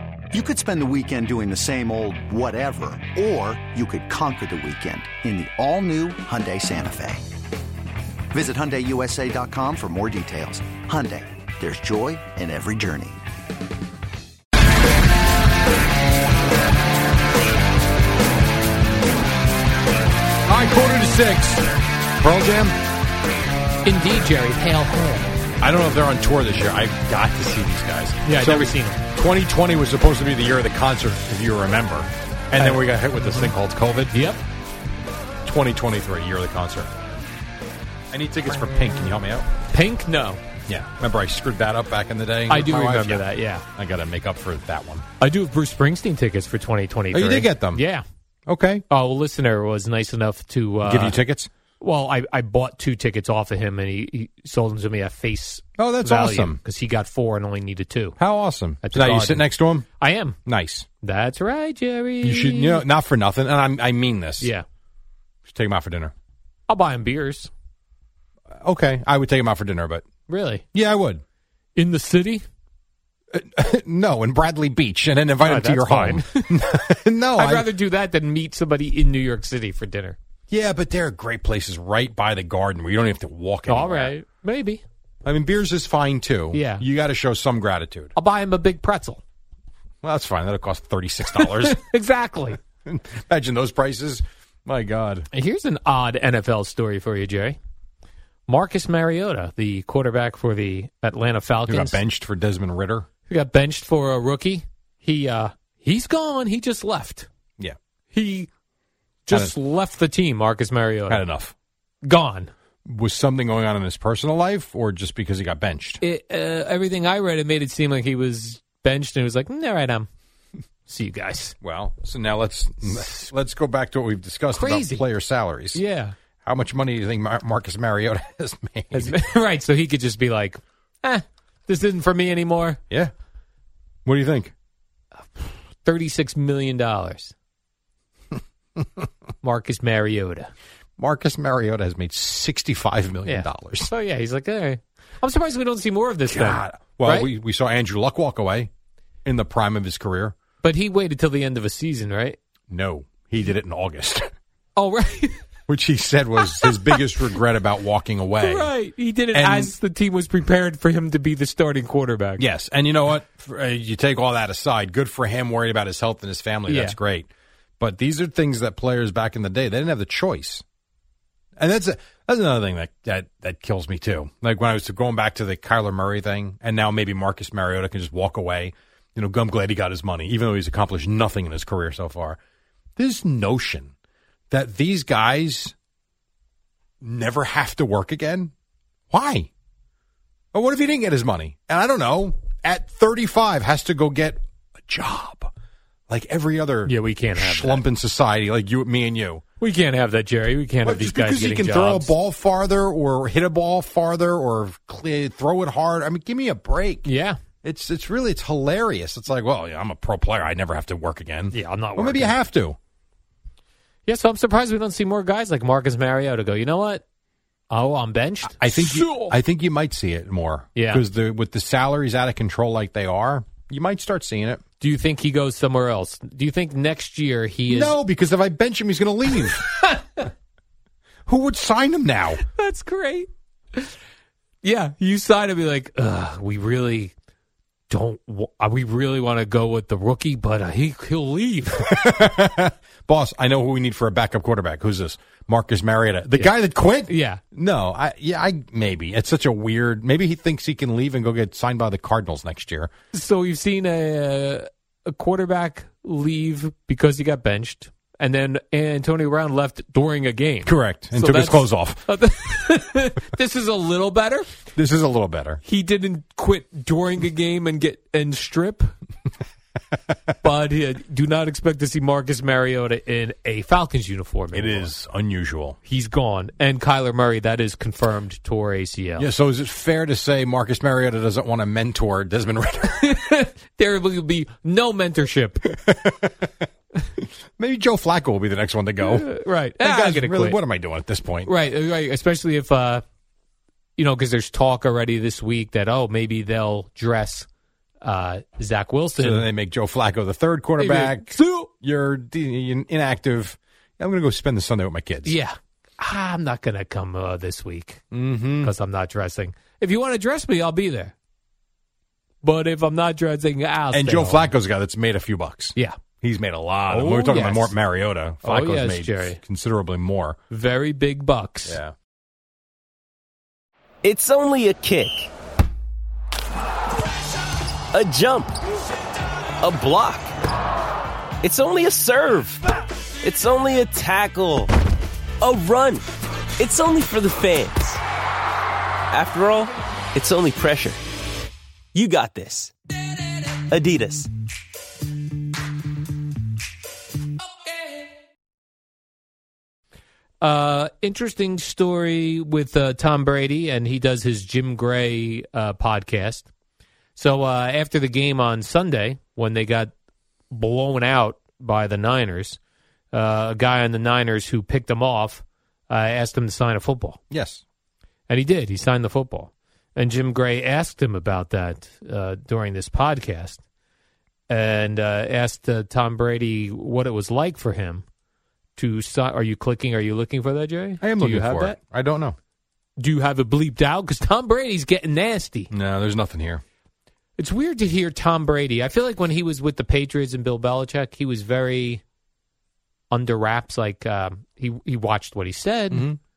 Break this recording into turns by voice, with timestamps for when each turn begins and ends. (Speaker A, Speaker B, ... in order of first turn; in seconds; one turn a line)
Speaker A: 0.3-7.2
Speaker A: 8.3-13.2
Speaker B: 20.5-21.6
Speaker B: 22.2-22.8
Speaker C: 23.8-25.3
Speaker B: 25.6-34.1
Speaker C: 28.2-29.0
Speaker C: 32.5-33.5
Speaker C: 34.1-34.4
Speaker B: 35.4-36.9
Speaker B: 38.1-39.5
Speaker C: 39.7-40.4
Speaker B: 40.7-45.0
Speaker C: 42.5-43.6
Speaker C: 45.2-48.0
Speaker B: 47.1-47.8
Speaker B: 48.5-48.8
Speaker C: 48.9-51.2
Speaker B: 50.8-51.5
Speaker C: 51.8-58.1
Speaker B: 55.8-56.6
Speaker B: 58.2-59.9
Speaker C: 58.8-59.5
Speaker C: 60.0-60.4
Speaker B: 60.5-60.9
Speaker C: 61.0-62.8
Speaker B: 62.2-64.5
Speaker C: 64.4-64.6
Speaker B: 65.5-66.1
Speaker C: 66.7-67.5
Speaker B: 68.6-70.0
Speaker C: 70.3-70.6
Speaker B: 70.7-71.2
Speaker C: 71.8-72.4
Speaker B: 73.3-77.7
Speaker C: 75.4-76.6
Speaker C: 77.3-80.2
Speaker B: 80.5-84.1
Speaker C: 83.7-84.8
Speaker B: 85.2-88.1
Speaker C: 86.5-86.8
Speaker C: 88.1-89.2
Speaker B: 90.0-91.8
Speaker C: 91.3-92.6
Speaker B: 92.8-95.3
Speaker C: 95.3-97.6
Speaker C: 98.5-102.0
Speaker B: 101.7-103.1
Speaker C: 103.3-107.3
Speaker C: 108.1-108.5
Speaker C: 109.2-111.2
Speaker B: 111.1-111.5
Speaker C: 112.0-112.5
Speaker B: 112.8-116.0
Speaker C: 116.0-120.1
Speaker C: 120.9-121.5
Speaker B: 121.6-125.8
Speaker C: 122.8-123.3
Speaker C: 124.5-125.0
Speaker C: 125.7-126.1
Speaker B: 126.4-129.2
Speaker C: 128.9-132.8
Speaker B: 134.1-134.5
Speaker C: 135.4-137.3
Speaker C: 139.4-140.5
Speaker B: 141.0-143.9
Speaker C: 143.2-147.3
Speaker B: 146.3-148.7
Speaker B: 149.2-150.3
Speaker C: 150.6-152.4
Speaker B: 152.7-154.2
Speaker C: 154.8-155.4
Speaker B: 155.7-158.7
Speaker C: 156.4-157.0
Speaker C: 158.4-162.4
Speaker B: 159.3-159.7
Speaker B: 162.4-167.3
Speaker C: 166.7-167.0
Speaker B: 167.8-170.6
Speaker B: 171.6-182.4
Speaker B: 183.0-183.9
Speaker B: 184.5-185.7
Speaker B: 187.0-188.5
Speaker B: 189.1-189.5
Speaker B: 190.5-195.5
Speaker B: 196.1-199.4
Speaker C: 196.8-197.8
Speaker C: 199.6-202.1
Speaker B: 200.8-207.1
Speaker C: 207.0-207.4
Speaker B: 207.6-212.8
Speaker C: 211.5-212.3
Speaker C: 214.1-217.0
Speaker C: 217.7-219.3
Speaker B: 218.6-224.6
Speaker C: 220.8-221.0
Speaker C: 224.8-228.0
Speaker B: 227.7-229.7
Speaker C: 229.4-230.3
Speaker B: 231.3-232.4
Speaker C: 232.4-233.9
Speaker C: 234.6-237.1
Speaker C: 237.9-242.0
Speaker B: 241.8-252.9
Speaker C: 247.1-247.4
Speaker C: 253.1-264.5
Speaker B: 260.6-262.0
Speaker B: 264.7-265.6
Speaker C: 265.6-268.9
Speaker C: 270.4-274.9
Speaker B: 274.5-275.8
Speaker C: 275.8-279.3
Speaker B: 279.2-283.1
Speaker C: 282.9-285.7
Speaker B: 285.8-286.3
Speaker B: 287.2-289.3
Speaker C: 289.0-290.6
Speaker B: 289.8-291.5
Speaker C: 291.4-293.0
Speaker C: 294.0-297.5
Speaker C: 298.0-299.5
Speaker B: 299.2-305.4
Speaker C: 300.8-301.7
Speaker C: 305.2-308.0
Speaker B: 308.1-308.7
Speaker C: 308.6-311.1
Speaker C: 312.4-314.5
Speaker B: 313.9-320.4
Speaker C: 316.9-317.7
Speaker C: 318.4-319.4
Speaker C: 320.5-321.8
Speaker B: 321.7-321.9
Speaker D: 324.0-325.3
Speaker D: 327.9-328.5
Speaker D: 329.6-330.3
Speaker D: 331.4-332.6
Speaker D: 333.2-334.7
Speaker D: 335.4-336.0
Speaker D: 336.6-338.0
Speaker D: 339.1-341.0
Speaker D: 341.9-342.7
Speaker D: 343.7-344.3
Speaker C: 350.4-356.5
Speaker C: 357.1-359.9
Speaker C: 360.5-362.6
Speaker C: 363.1-367.2
Speaker B: 367.3-367.6
Speaker C: 368.3-373.6
Speaker C: 374.5-378.0
Speaker C: 378.8-381.8
Speaker B: 381.0-382.4
Speaker C: 383.0-385.7
Speaker B: 385.7-386.6
Speaker C: 387.4-392.0
Speaker C: 393.1-396.1
Speaker B: 395.9-396.2